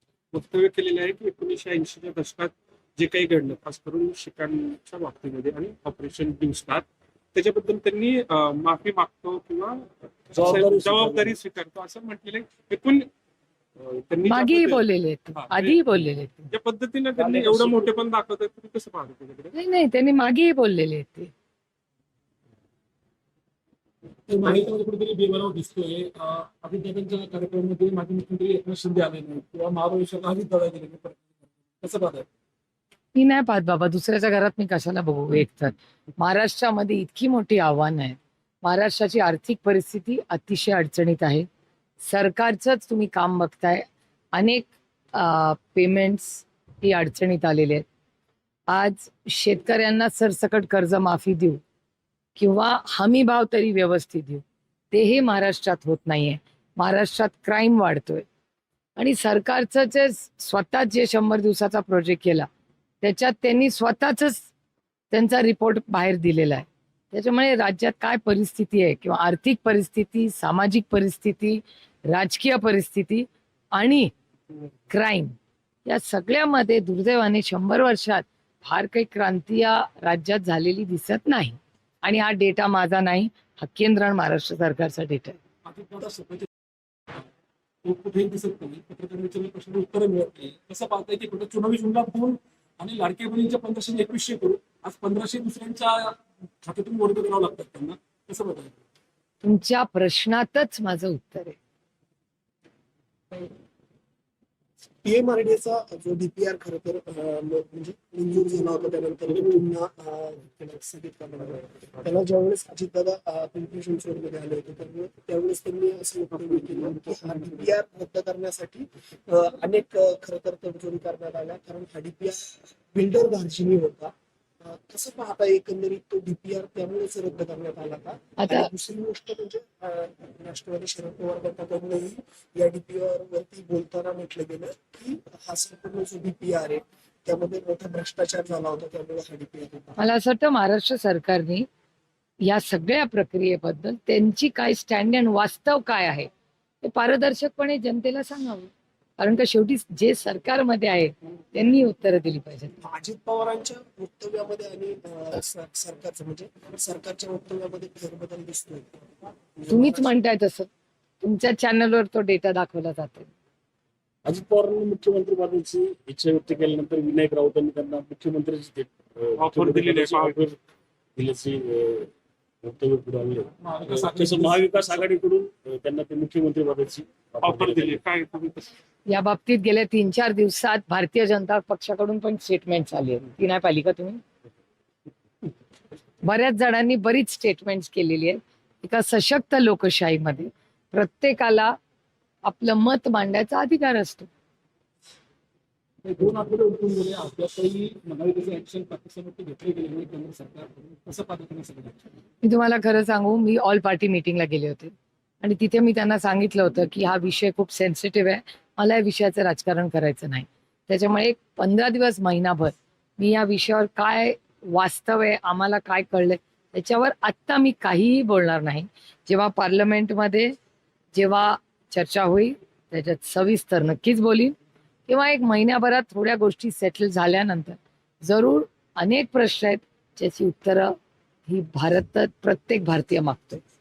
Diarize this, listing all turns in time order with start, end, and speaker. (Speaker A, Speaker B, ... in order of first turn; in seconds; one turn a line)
Speaker A: 0.3-13.1
Speaker B: 10.3-11.3
Speaker A: 13.8-15.8
Speaker C: 14.2-16.5
Speaker A: 16.5-19.5
Speaker B: 17.2-17.8
Speaker C: 19.5-21.3
Speaker D: 24.3-32.2
Speaker C: 33.1-41.5
Speaker C: 42.0-47.9
Speaker C: 48.7-51.6
Speaker C: 52.4-58.2
Speaker C: 59.0-62.5
Speaker C: 63.0-64.5
Speaker C: 65.1-74.1
Speaker C: 74.9-85.4
Speaker D: 85.6-86.5
Speaker D: 87.8-98.8
Speaker C: 99.4-101.6
Speaker E: 105.0-140.0
Speaker C: 128.4-128.7
Speaker C: 140.0-141.7
Speaker C: 142.4-146.3
Speaker C: 146.8-152.8
Speaker E: 152.8-158.9
Speaker E: 159.6-160.1
Speaker C: 159.7-160.7
Speaker C: 161.2-163.3
Speaker B: 164.2-170.6
Speaker A: 169.4-170.5
Speaker B: 171.2-172.1
Speaker B: 172.6-178.0
Speaker D: 173.6-175.1
Speaker A: 177.4-178.7
Speaker C: 179.1-184.2
Speaker C: 186.2-191.8
Speaker C: 192.4-194.3
Speaker D: 196.0-202.0
Speaker C: 202.4-220.5
Speaker C: 221.1-224.5
Speaker C: 225.1-230.9
Speaker C: 231.5-233.6